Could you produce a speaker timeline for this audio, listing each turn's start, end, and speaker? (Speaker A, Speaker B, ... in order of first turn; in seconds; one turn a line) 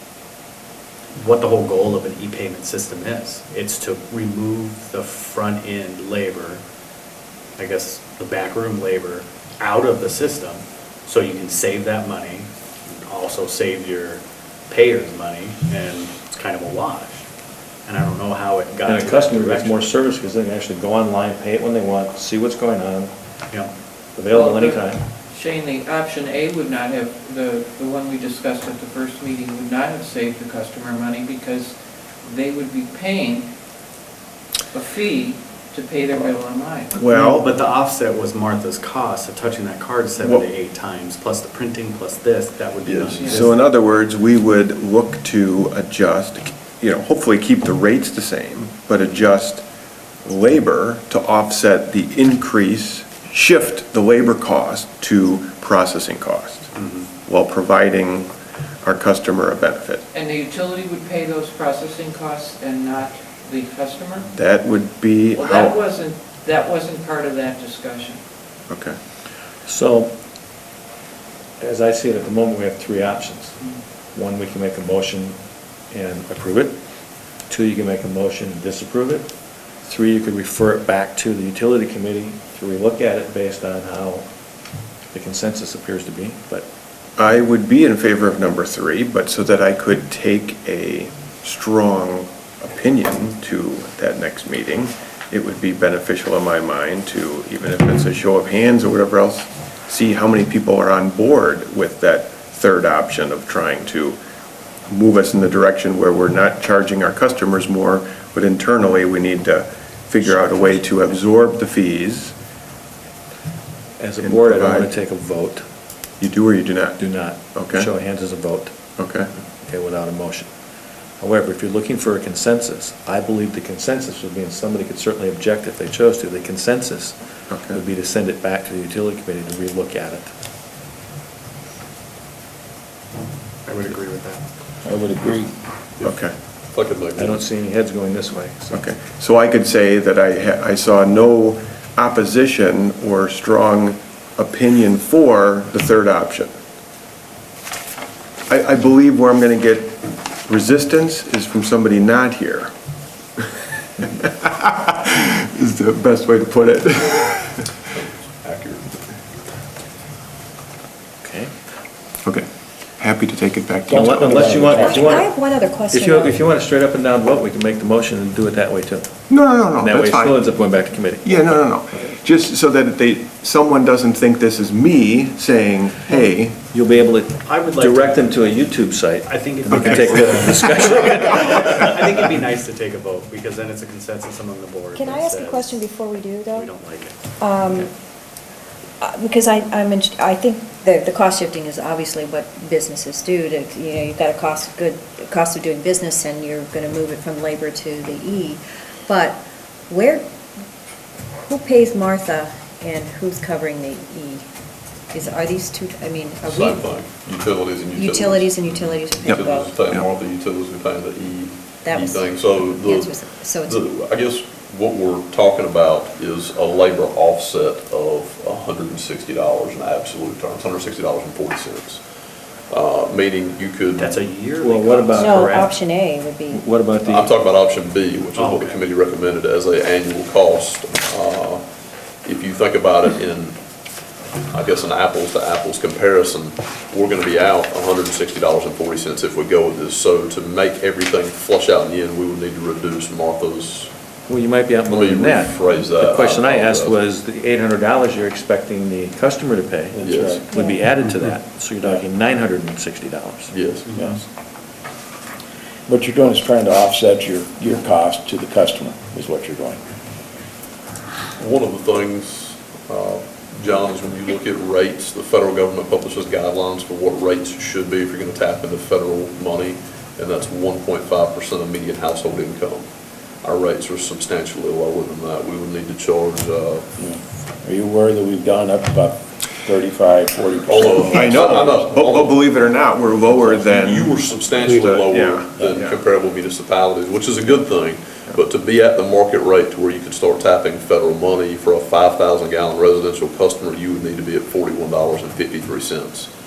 Speaker A: 1.1-6.6
Speaker A: 7.6-17.3
Speaker A: 17.9-19.9
Speaker B: 18.9-23.1
Speaker B: 24.2-25.0
Speaker C: 24.3-33.5
Speaker C: 34.7-36.9
Speaker D: 37.0-37.5
Speaker A: 37.0-43.6
Speaker E: 42.9-43.2
Speaker C: 43.2-43.5
Speaker D: 43.2-49.6
Speaker D: 50.2-56.7
Speaker A: 56.8-57.1
Speaker D: 57.2-58.3
Speaker D: 58.8-60.0
Speaker C: 60.1-64.3
Speaker D: 64.3-65.8
Speaker C: 65.3-68.2
Speaker D: 68.7-69.0
Speaker B: 69.7-70.1
Speaker B: 71.6-73.6
Speaker B: 74.1-75.4
Speaker B: 75.9-76.8
Speaker B: 77.5-79.3
Speaker B: 79.8-84.3
Speaker B: 85.1-86.7
Speaker D: 87.2-104.2
Speaker D: 104.9-112.3
Speaker B: 114.0-115.7
Speaker D: 114.2-114.9
Speaker D: 116.2-117.0
Speaker B: 117.0-118.8
Speaker D: 117.5-117.9
Speaker D: 119.0-119.3
Speaker B: 119.6-120.5
Speaker B: 121.2-127.2
Speaker D: 127.5-127.8
Speaker B: 127.7-130.3
Speaker A: 133.7-134.4
Speaker F: 134.8-135.5
Speaker D: 136.0-136.3
Speaker E: 136.7-137.4
Speaker B: 137.2-138.8
Speaker D: 138.7-146.5
Speaker D: 148.5-152.7
Speaker D: 154.2-157.6
Speaker E: 157.9-159.0
Speaker B: 161.2-161.5
Speaker D: 162.2-162.5
Speaker D: 163.0-164.8
Speaker F: 163.9-165.1
Speaker B: 163.9-165.3
Speaker G: 164.7-166.4
Speaker B: 165.9-169.2
Speaker D: 169.3-170.4
Speaker B: 169.7-171.7
Speaker D: 171.2-176.6
Speaker B: 176.7-181.6
Speaker A: 177.4-178.4
Speaker A: 179.2-185.8
Speaker D: 179.7-180.0
Speaker G: 184.9-186.7
Speaker A: 186.5-187.3
Speaker G: 187.4-187.9
Speaker G: 189.0-200.2
Speaker G: 201.4-204.4
Speaker G: 205.1-206.9
Speaker E: 206.4-222.0
Speaker G: 208.0-209.8
Speaker G: 211.8-213.8
Speaker E: 222.7-224.2
Speaker A: 224.0-225.8
Speaker B: 224.6-225.7
Speaker G: 225.2-226.7
Speaker B: 226.5-227.3
Speaker E: 227.0-231.7
Speaker A: 228.3-228.8
Speaker E: 232.2-233.6
Speaker E: 234.5-243.9
Speaker B: 244.3-254.1
Speaker E: 244.8-247.0
Speaker F: 249.9-250.6
Speaker E: 250.0-250.4
Speaker G: 250.5-250.9
Speaker E: 253.5-253.9
Speaker F: 253.9-254.2
Speaker F: 255.9-259.8
Speaker E: 261.4-272.9
Speaker E: 273.4-276.9
Speaker F: 277.0-281.9
Speaker E: 280.7-282.4
Speaker D: 281.0-286.0
Speaker E: 283.3-296.3